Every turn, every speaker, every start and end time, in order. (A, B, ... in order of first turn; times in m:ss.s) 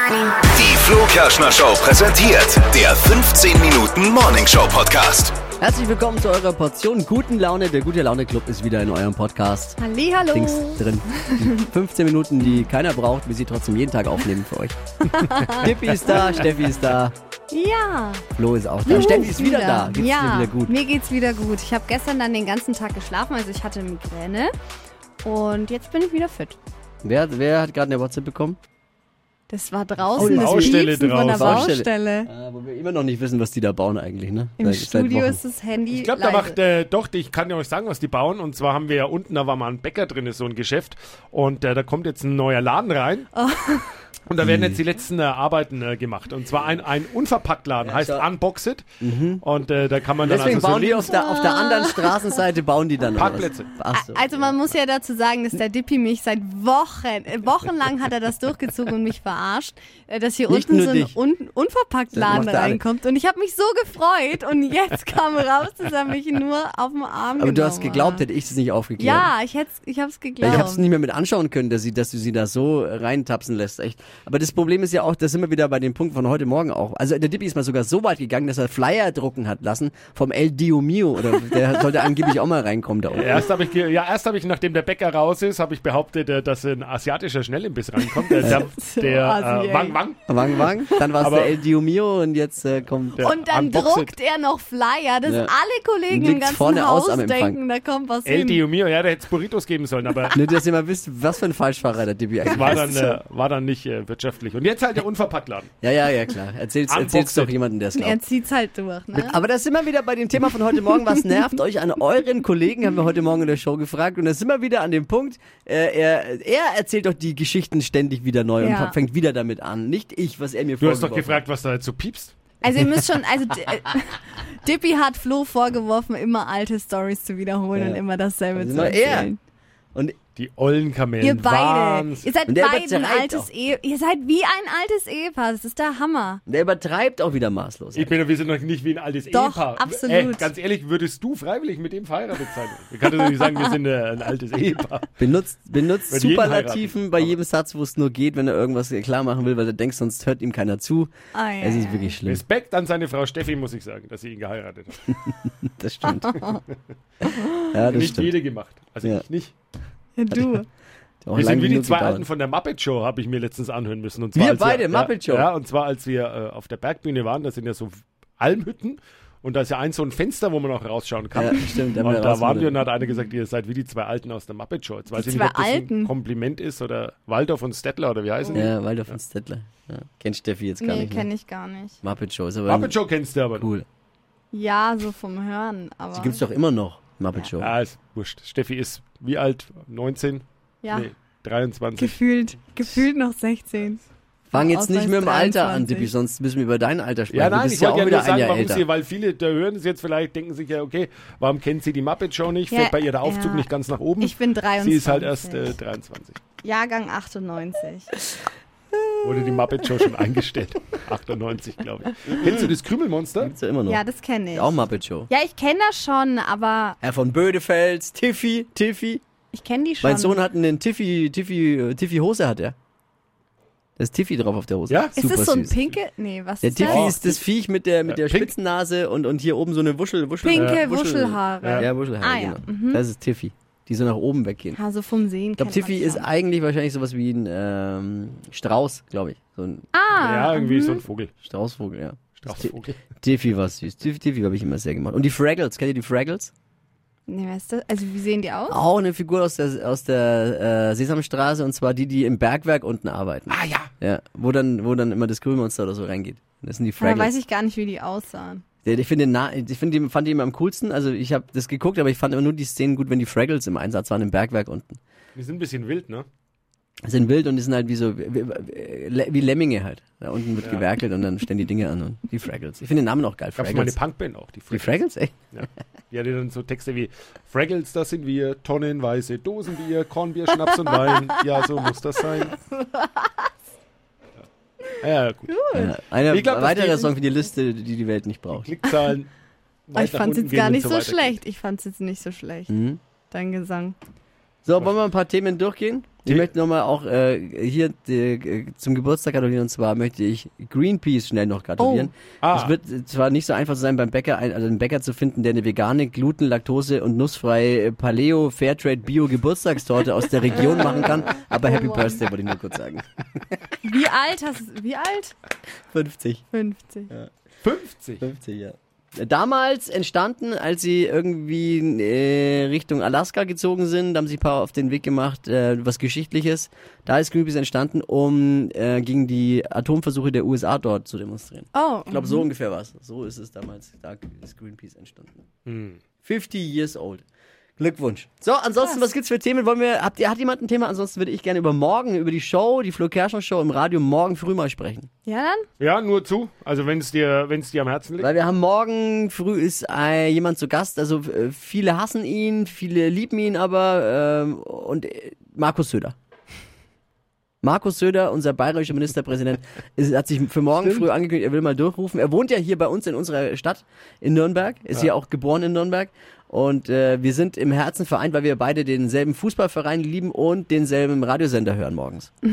0:00.4-0:05.4 A
0:05.6-0:14.7 B
0:09.8-0:11.7 C
0:15.1-0:16.4 C
0:15.5-0:17.1 B
0:16.1-0:16.5 D
0:17.5-0:18.2 C
0:18.3-0:20.8 B
0:18.8-0:19.2 D
0:18.8-0:24.5 C
0:25.2-0:26.6 C
0:27.0-0:28.6 B
0:29.5-0:32.3 C
0:30.1-0:35.4 B
0:30.1-0:31.7 D
0:34.6-0:36.6 C
0:35.9-0:43.3 D
0:43.3-0:44.0 C
0:44.3-0:48.8 D
0:44.4-0:44.8 B
0:47.8-0:48.3 B
0:49.0-0:49.4 B
0:49.4-0:51.2 D
0:50.2-0:54.6 B
0:51.1-0:52.3 C
0:53.2-0:53.7 D
0:53.9-1:08.3 C
1:00.5-1:01.2 B
1:02.1-1:02.8 B
1:07.4-1:09.3 B
1:09.0-1:10.9 C
1:10.4-1:23.5 B
1:21.4-1:22.1 C
1:23.1-1:30.2 D
1:28.0-1:30.0 C
1:28.4-1:28.7 B
1:30.3-1:34.1 B
1:30.6-1:31.1 C
1:31.2-1:31.6 D
1:33.1-1:33.9 D
1:33.2-1:38.6 C
1:35.2-1:35.5 B
1:36.1-1:37.6 B
1:38.2-1:40.4 D
1:40.3-1:43.0 B
1:42.5-1:45.7 D
1:42.5-1:43.2 C
1:45.8-1:48.2 B
1:46.9-1:47.6 D
1:48.0-1:49.4 C
1:49.1-2:01.4 B
1:58.6-1:59.0 C
2:00.8-2:02.3 D
2:02.6-2:09.4 C
2:07.7-2:08.0 B
2:08.5-2:09.3 B
2:10.4-2:12.3 D
2:11.2-2:16.4 C
2:12.4-2:13.5 B
2:16.5-2:18.1 B
2:17.9-2:25.1 D
2:19.3-2:20.5 C
2:25.2-2:32.4 B
2:26.1-2:27.4 D
2:31.3-2:32.1 C
2:32.2-2:35.3 D
2:35.6-2:36.4 B
2:36.2-2:36.6 C
2:36.3-2:36.8 D
2:37.2-2:37.7 C
2:37.7-2:38.4 B
2:37.8-2:39.5 D
2:40.2-2:40.7 C
2:40.3-2:40.6 B
2:41.2-2:42.2 B
2:41.3-2:59.2 D
2:44.3-2:45.5 B
2:51.3-2:52.8 B
2:55.1-2:56.1 C
2:58.5-3:01.3 B
3:00.8-3:02.0 C
3:02.0-3:03.0 B
3:02.7-3:03.7 D
3:03.5-3:03.8 B
3:04.5-3:06.4 C
3:06.1-3:07.7 B
3:07.6-3:12.2 D
3:10.8-3:11.1 C
3:12.0-3:16.1 C
3:14.5-3:18.8 B
3:17.3-3:26.4 D
3:22.7-3:23.7 C
3:24.2-3:25.7 C
3:26.6-3:28.1 C
3:29.2-3:33.5 D
3:33.4-3:35.3 B
3:33.9-3:37.0 C
3:37.0-3:39.2 B
3:39.5-3:40.4 C
3:40.0-3:42.7 B
3:44.0-3:45.9 B
3:44.9-3:45.1 D
3:45.2-3:47.2 C
3:46.6-3:54.8 B
3:46.8-3:47.4 D
3:48.1-3:48.5 D
3:50.4-3:53.0 C
3:50.5-3:50.8 D
3:51.6-3:51.9 D
3:54.7-3:56.3 C
3:55.6-3:59.9 B
3:59.9-4:01.0 C
4:00.2-4:01.3 D
4:01.4-4:06.5 B
4:02.4-4:03.0 D
4:07.3-4:08.8 C
4:08.7-4:17.3 B
4:13.5-4:13.9 D
4:17.0-4:18.6 C
4:18.8-4:25.0 B
4:25.3-4:26.3 D
4:27.0-4:34.0 B
4:30.6-4:30.9 D
4:33.6-4:35.0 D
4:34.7-4:35.5 B
4:35.5-4:42.6 D
4:40.9-4:41.2 C
4:42.6-4:43.3 C
4:45.0-4:45.5 D
4:45.5-4:45.9 C
4:45.7-4:48.7 B
4:46.2-4:47.1 D
4:48.5-4:49.3 D
4:49.9-4:51.4 D
4:49.9-4:52.7 C
4:52.7-4:53.0 B
4:53.3-4:54.0 C
4:54.6-5:13.6 B
4:56.2-4:56.5 D
5:01.8-5:02.1 C
5:02.4-5:02.7 D
5:10.6-5:12.2 C
5:13.8-5:15.3 C
5:15.9-5:16.4 B
5:16.5-5:17.1 C
5:17.6-5:18.2 D
5:18.2-5:35.4 B
5:31.7-5:32.5 C
5:35.6-5:36.0 D
5:36.2-5:37.2 B
5:37.8-5:45.1 B
5:45.2-5:45.7 C
5:45.8-5:48.3 D
5:48.2-5:56.1 B
5:57.6-6:12.3 B